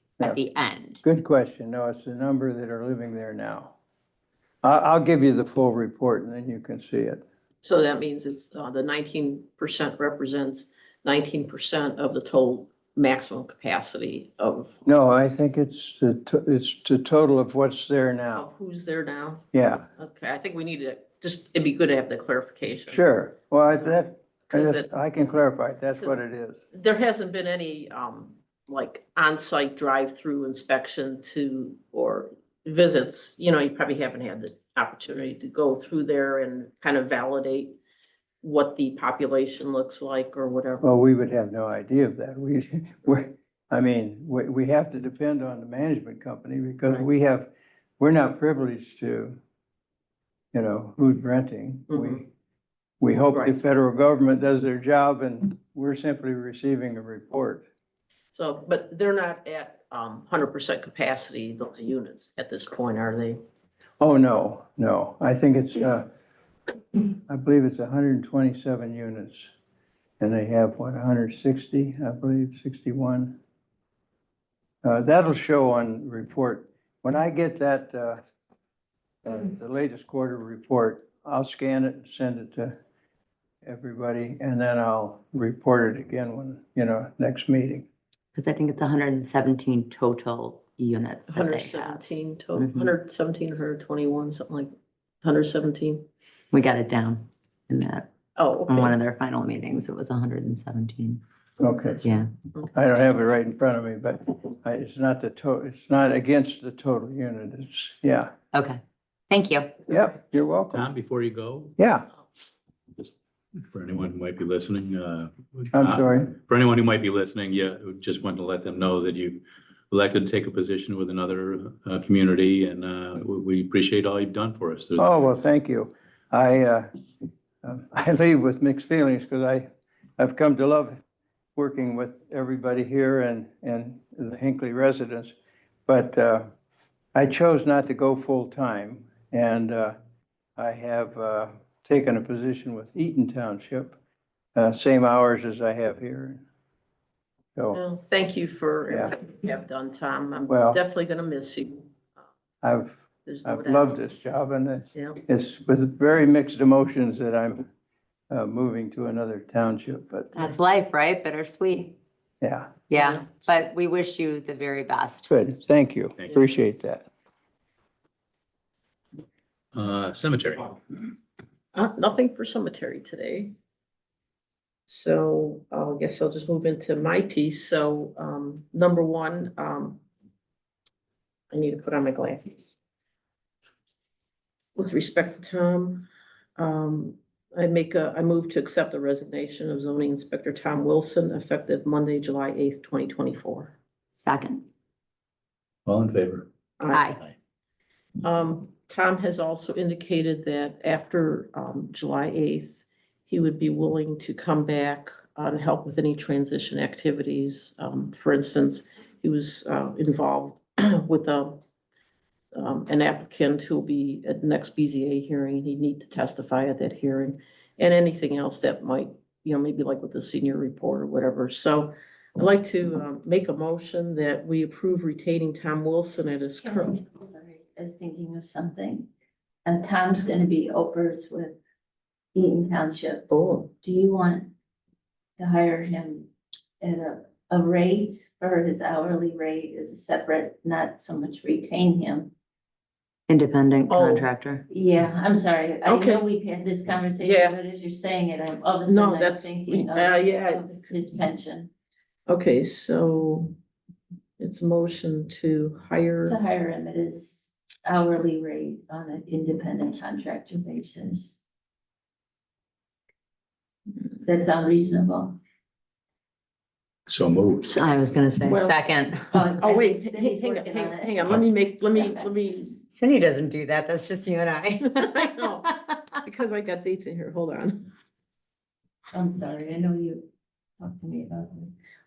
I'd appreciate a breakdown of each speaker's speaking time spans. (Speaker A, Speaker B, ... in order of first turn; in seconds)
Speaker A: 0.2-1.0, 88.3-92.0, 92.6-92.9, 96.5-98.1, 98.7-101.2, 102.0-102.3, 108.5-109.7, 160.3-162.0, 162.9-165.3, 194.2-194.6, 196.9-197.2, 243.3-244.6, 267.6-269.4, 272.9-276.0
Speaker B: 1.0-3.8, 4.6-7.2, 14.8-18.5, 19.5-19.9, 22.9-26.6, 40.8-49.4, 50.5-52.3, 53.0-57.6, 64.0-66.1, 67.3-69.5, 70.2-73.4, 74.8-78.2, 79.2-82.8, 83.6-87.9, 101.6-102.1, 102.8-108.3, 109.9-110.9, 111.8-112.1, 115.7-116.3, 125.0-126.9, 127.6-129.7, 130.2-131.0, 131.6-135.3, 135.9-136.5, 137.2-140.0, 140.6-144.0, 144.6-146.4, 148.9-149.1, 150.5-150.8, 152.6-157.7, 158.3-160.5, 162.4-162.7, 165.3-167.1
Speaker C: 7.6-14.8, 18.4-19.4, 20.0-23.0, 23.7-25.0, 26.7-37.8, 38.4-40.9, 51.9-52.2, 53.3-53.6, 58.3-63.4, 91.3-94.7, 95.2-96.0, 98.4-99.0, 147.7-151.9, 153.3-154.0, 154.9-155.2, 162.9-163.2, 171.7-173.5, 174.9-180.0, 181.5-182.8, 184.8-193.8, 196.8-197.1, 198.2-211.6, 212.5-227.0, 233.3-233.7, 243.9-244.3, 245.9-246.2, 247.2-247.6, 248.9-250.8, 252.3-253.6, 254.4-256.4, 268.5-268.8, 269.3-272.8, 275.0-275.7, 276.2-277.9
Speaker D: 110.7-111.8, 113.7-125.1, 166.2-166.5, 169.7-170.8, 195.9-196.5, 267.1-267.8
Speaker E: 226.6-229.1, 229.7-231.6, 232.3-233.3, 233.8-234.5, 235.4-236.3, 236.8-242.3, 244.7-251.7, 256.3-261.4, 264.2-265.4, 269.3-271.3, 271.9-272.3, 279.1-281.7